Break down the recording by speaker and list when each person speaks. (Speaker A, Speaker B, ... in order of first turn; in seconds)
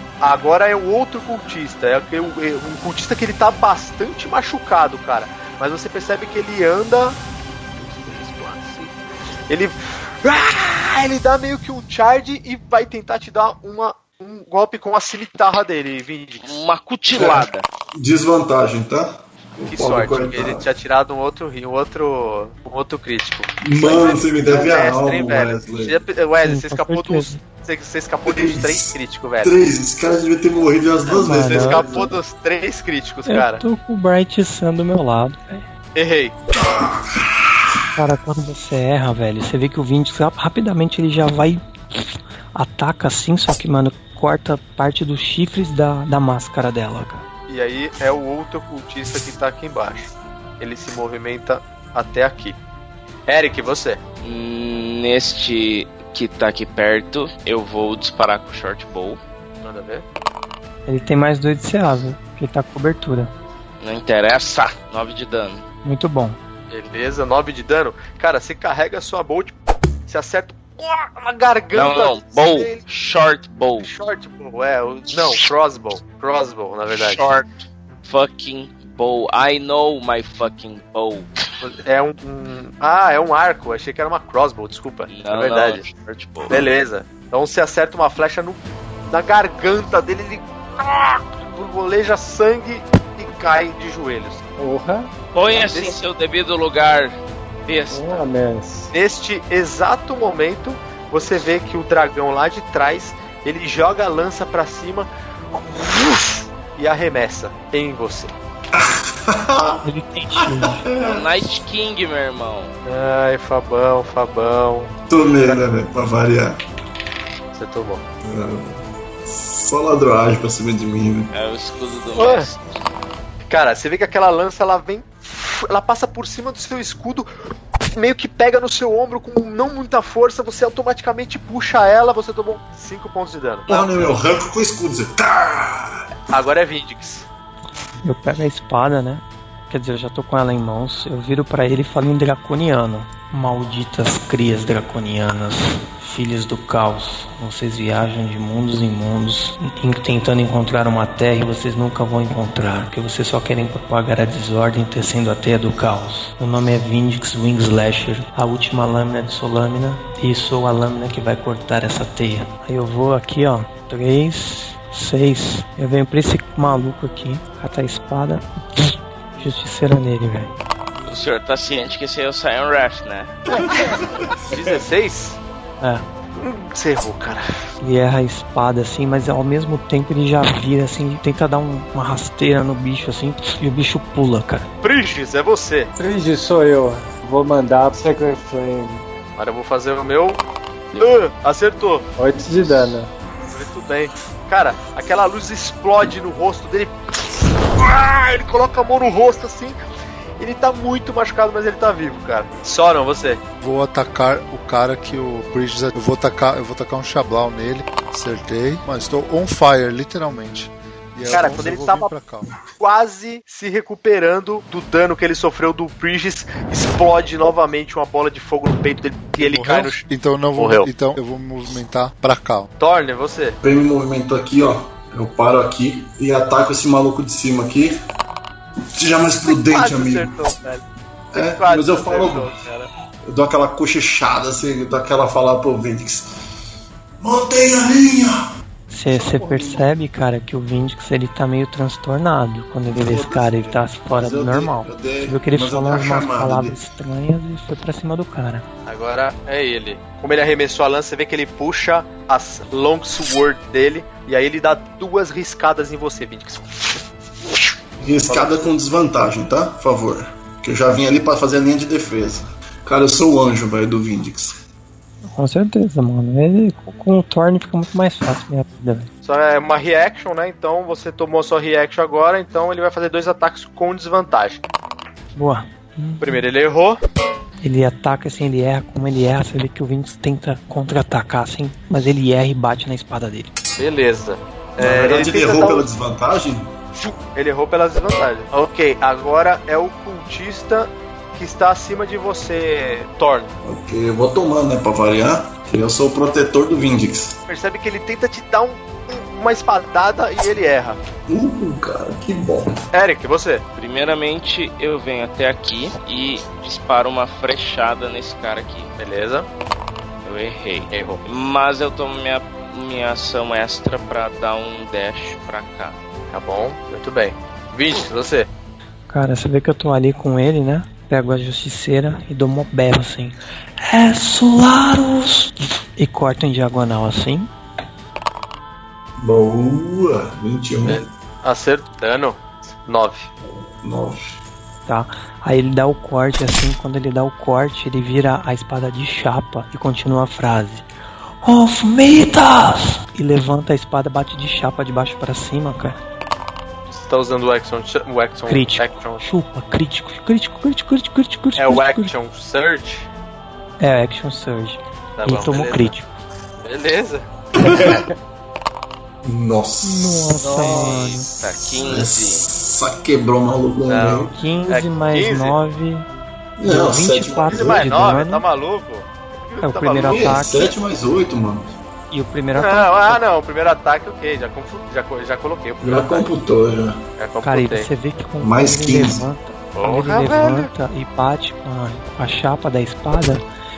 Speaker A: 0.2-7.2, 7.8-8.9, 9.5-16.5, 19.7-29.6, 31.1-33.6, 36.0-36.4, 47.5-52.6, 53.3-54.0, 59.6-60.0, 66.7-69.5, 70.1-72.8, 73.8-77.3, 81.6-85.9, 86.5-94.4, 95.5-96.0, 98.9-108.3, 112.9-115.6, 117.5-118.0, 122.2-122.5, 123.5-127.3, 127.9-134.0, 136.3-137.3, 174.5-175.4, 176.4-177.7, 184.8-185.9, 189.4-192.1, 193.5-199.8, 200.4-203.4, 211.3-212.1, 212.8-220.0, 220.6-220.9, 222.8-223.6, 229.5-230.8, 231.3-232.9, 248.9-256.9, 258.3-258.7, 269.2-274.6, 276.2-277.0, 283.8-285.9, 286.9-293.5, 297.5-301.0, 302.9-303.6, 309.0-309.5, 310.9-311.2, 316.3-318.5, 330.8-333.3, 346.9-349.2, 351.6-353.1, 355.2-355.9, 356.6-357.3, 360.5-360.9, 363.9-365.6, 367.5-370.4, 372.6-376.3, 377.2-377.9, 379.8-380.7
Speaker B: 16.4-17.6, 54.2-59.2, 63.8-65.6, 71.7-73.9, 76.9-81.4, 85.1-86.7, 95.3-98.3, 111.0-112.7, 121.3-122.7, 171.1-173.3, 303.8-308.9, 310.2-316.0, 360.6-362.4
Speaker C: 17.1-20.6, 23.6-26.0, 28.3-32.1, 36.5-37.4, 108.7-109.8, 110.4-111.3, 115.1-116.6, 118.2-121.3, 133.7-136.1, 173.6-173.9, 174.5-174.8, 223.6-228.0, 228.9-230.3, 231.3-232.5, 233.3-236.3, 237.2-238.4, 239.1-239.9, 242.9-246.8, 258.0-264.6, 284.8-286.7, 293.6-297.4, 301.3-302.8, 329.2-331.1, 333.5-334.4, 357.6-358.1, 359.2-360.6, 361.7-364.3, 366.6-368.0, 370.0-371.7, 375.8-377.0, 378.4-379.3
Speaker D: 26.4-27.4, 31.1-32.1, 33.3-35.7, 38.0-47.2, 60.9-63.3, 65.8-66.4, 109.8-110.8, 138.0-170.5, 177.8-184.7, 238.9-248.7, 265.3-269.1, 275.4-276.4, 277.6-283.5, 319.1-327.5, 334.9-340.9, 341.4-346.0, 348.5-352.1, 353.8-356.1, 359.8-361.3, 364.3-366.1, 366.6-368.4, 369.6-370.8, 372.1-373.2, 377.4-383.4
Speaker E: 94.6-95.1, 97.9-98.9, 186.0-189.1, 192.2-193.1
Speaker F: 203.6-212.5, 219.4-222.7